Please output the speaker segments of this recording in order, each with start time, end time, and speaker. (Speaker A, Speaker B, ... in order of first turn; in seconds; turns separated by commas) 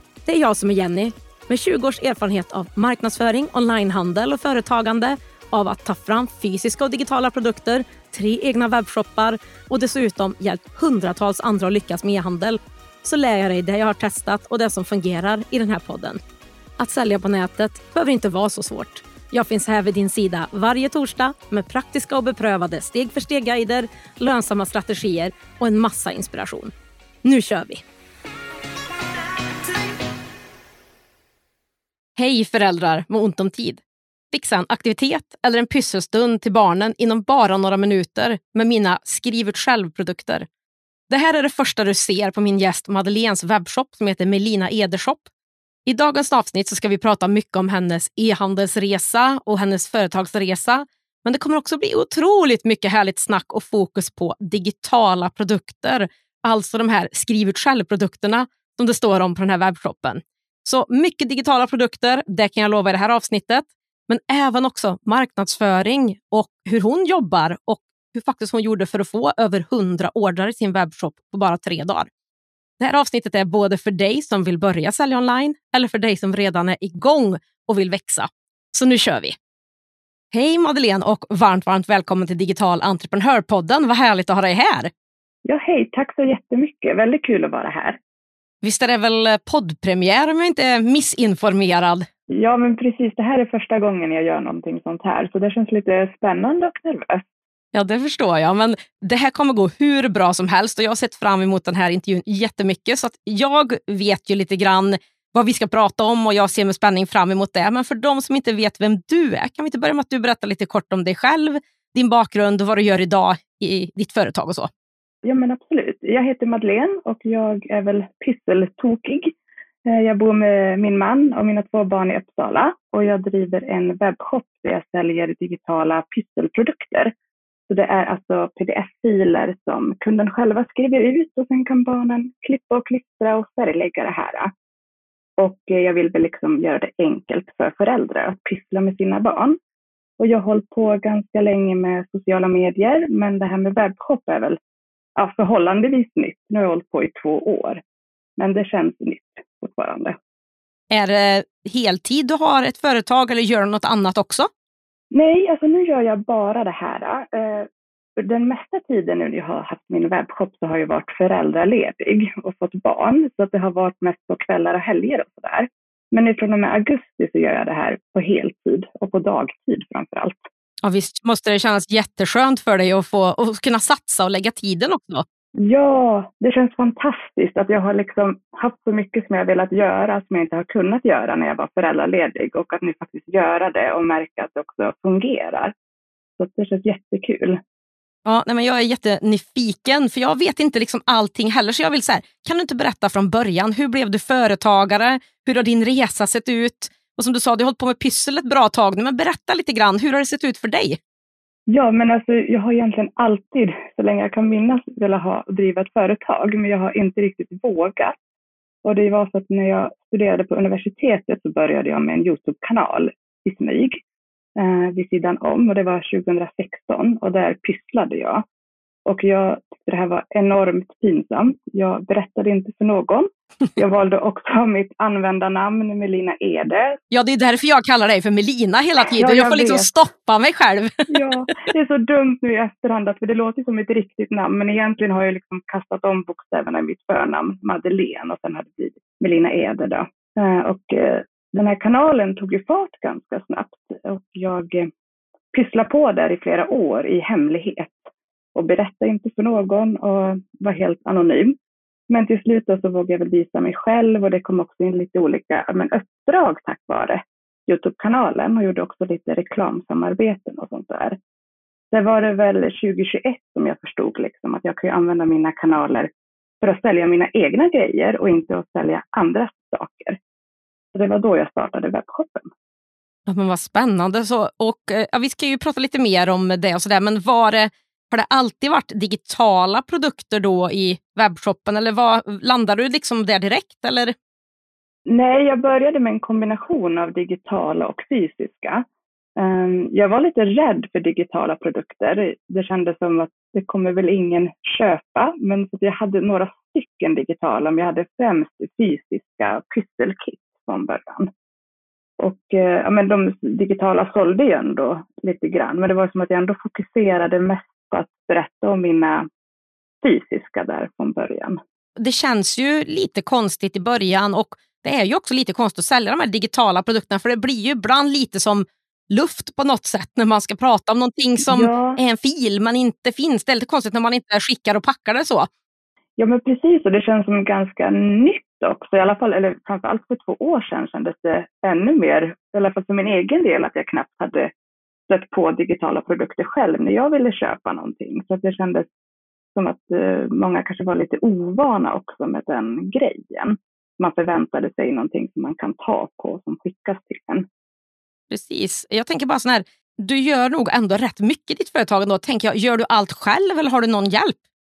Speaker A: 0.2-16.2, Speaker A: 16.8-26.7, Speaker A: 27.2-27.8, Speaker A: 32.2-40.5, Speaker A: 41.1-45.3, Speaker A: 45.9-72.1, Speaker A: 72.8-79.3, Speaker A: 80.3-84.9, Speaker B: 85.5-88.0, Speaker A: 88.6-92.1, Speaker B: 92.3-97.2, Speaker A: 97.7-114.7, Speaker B: 115.2-127.1, Speaker B: 127.7-134.5, Speaker B: 135.4-139.6, Speaker B: 140.2-144.6, Speaker B: 145.2-147.8, Speaker B: 148.4-150.2, Speaker A: 150.9-154.5, Speaker B: 155.1-170.5, Speaker A: 170.8-175.2, Speaker B: 175.6-185.7, Speaker B: 186.4-187.6, Speaker A: 188.2-201.0, Speaker B: 201.7-208.1, Speaker B: 208.8-214.0, Speaker B: 214.6-218.4, Speaker B: 219.1-227.0, Speaker A: 227.1-231.2, Speaker B: 229.1-229.9, Speaker B: 231.1-244.9, Speaker B: 245.5-251.5, Speaker B: 252.1-261.2, Speaker B: 261.9-266.1, Speaker B: 266.6-270.2, Speaker B: 270.9-272.5, Speaker A: 273.3-284.1, Speaker B: 285.1-288.8, Speaker B: 289.4-301.3, Speaker B: 302.2-309.2, Speaker B: 310.0-311.6, Speaker A: 312.0-325.5, Speaker B: 321.4-322.0, Speaker B: 326.2-334.5, Speaker B: 335.1-338.9, Speaker B: 339.5-347.4, Speaker A: 348.3-354.4